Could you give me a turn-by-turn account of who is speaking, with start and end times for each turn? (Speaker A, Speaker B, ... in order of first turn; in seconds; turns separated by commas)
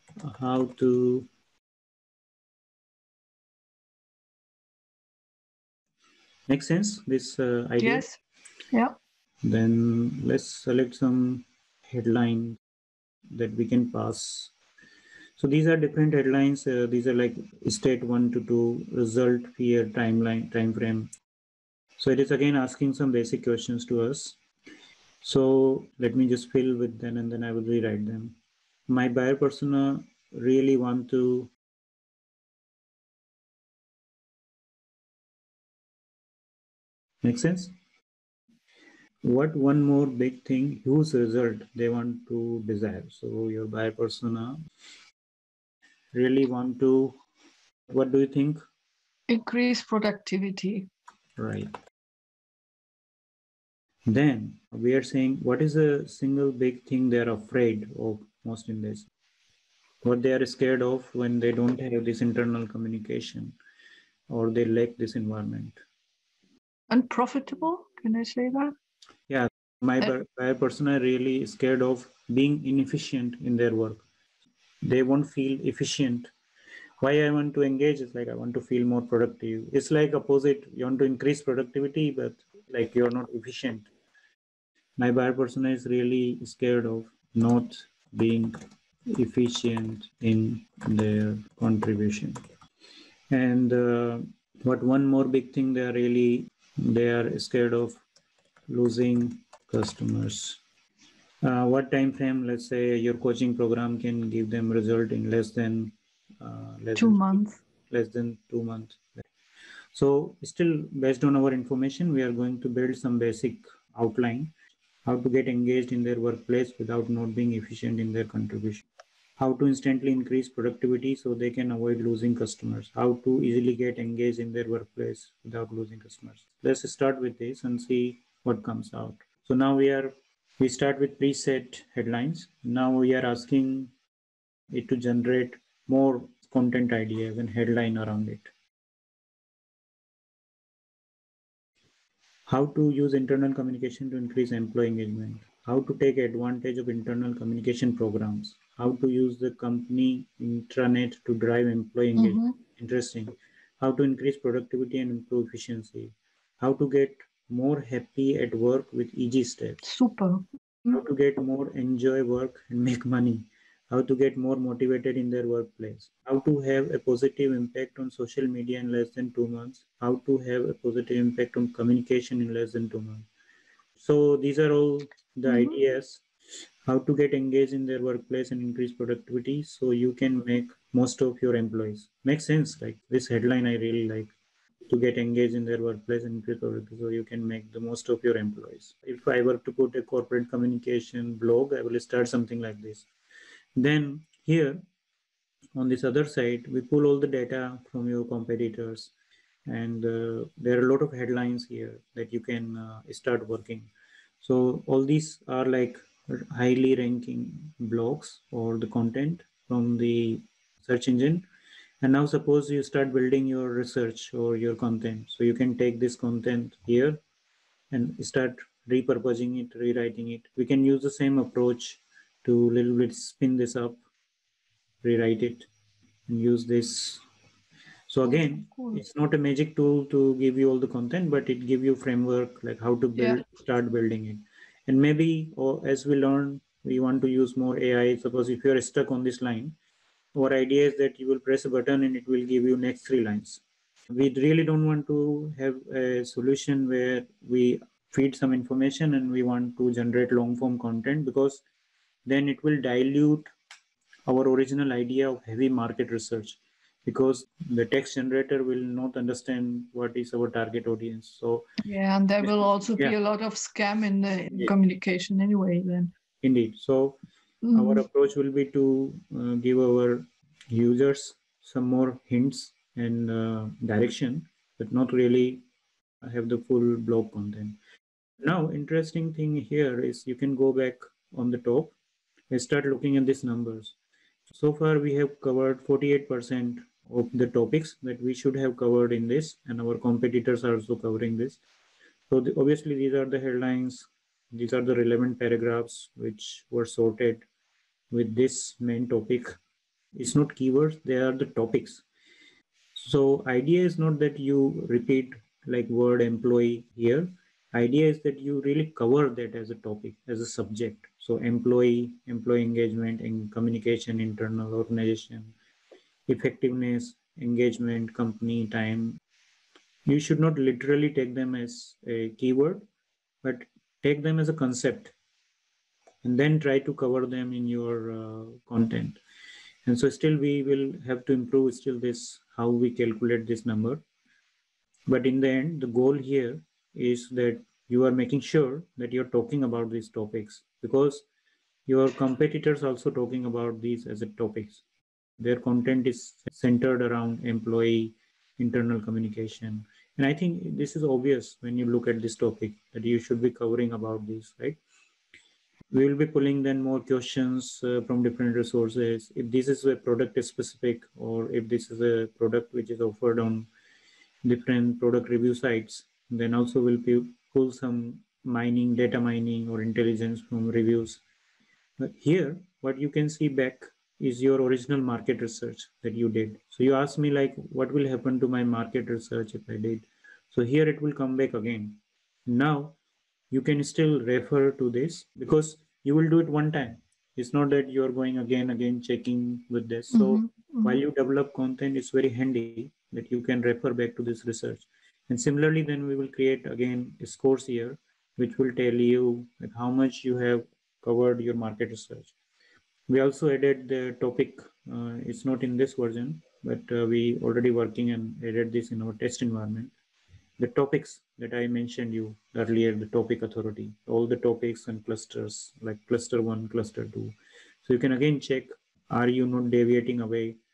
Speaker A: 0.2-1.3, Speaker A: 6.5-8.0, Speaker B: 7.8-8.1, Speaker A: 9.4-12.6, Speaker A: 13.3-14.5, Speaker A: 15.4-21.1, Speaker A: 22.0-24.4, Speaker A: 25.2-31.5, Speaker A: 37.2-37.7, Speaker A: 39.2-44.6, Speaker A: 46.1-47.2, Speaker A: 47.9-48.6, Speaker B: 49.3-50.9, Speaker A: 51.4-51.7, Speaker A: 54.1-59.1, Speaker A: 60.0-63.6, Speaker A: 64.3-65.8, Speaker B: 66.9-68.8, Speaker A: 69.3-74.0, Speaker A: 74.8-76.3, Speaker A: 77.0-83.9, Speaker A: 85.0-88.5, Speaker A: 89.1-92.4, Speaker A: 93.3-98.0, Speaker A: 98.7-100.6, Speaker A: 101.4-109.2, Speaker B: 107.0-107.6, Speaker A: 109.9-114.5, Speaker A: 115.0-118.8, Speaker A: 119.4-133.9, Speaker A: 134.7-138.5, Speaker A: 142.5-159.8, Speaker B: 152.2-152.6, Speaker B: 159.8-160.4, Speaker A: 160.9-173.2, Speaker A: 174.0-176.2, Speaker B: 175.4-175.8, Speaker A: 176.8-184.3, Speaker A: 184.9-193.1, Speaker A: 193.8-194.8, Speaker A: 195.8-199.1, Speaker A: 199.7-203.9, Speaker A: 204.4-211.4, Speaker A: 212.0-217.2, Speaker A: 217.9-224.0, Speaker A: 225.0-225.7, Speaker A: 226.3-227.2, Speaker A: 228.1-239.7, Speaker B: 228.2-229.0, Speaker B: 233.2-233.4, Speaker A: 240.3-251.6, Speaker A: 252.2-253.5, Speaker A: 254.3-261.7, Speaker B: 261.8-266.1, Speaker A: 262.4-263.1, Speaker A: 266.4-267.2, Speaker B: 267.6-268.0, Speaker A: 267.7-275.6, Speaker A: 276.2-277.8, Speaker A: 278.4-281.9, Speaker A: 282.5-283.9, Speaker A: 284.5-291.6, Speaker A: 292.3-297.4, Speaker A: 298.1-299.5, Speaker A: 300.2-302.0, Speaker A: 302.9-315.5, Speaker A: 316.3-319.2, Speaker A: 320.1-322.8, Speaker A: 323.4-325.1, Speaker A: 326.2-329.2, Speaker A: 329.9-334.0, Speaker A: 335.1-341.2, Speaker A: 341.9-344.8, Speaker A: 345.4-354.8, Speaker A: 355.9-363.7, Speaker A: 364.4-371.2, Speaker A: 372.0-382.9, Speaker A: 383.5-402.3, Speaker B: 390.1-391.0, Speaker A: 403.1-409.9, Speaker A: 410.6-420.6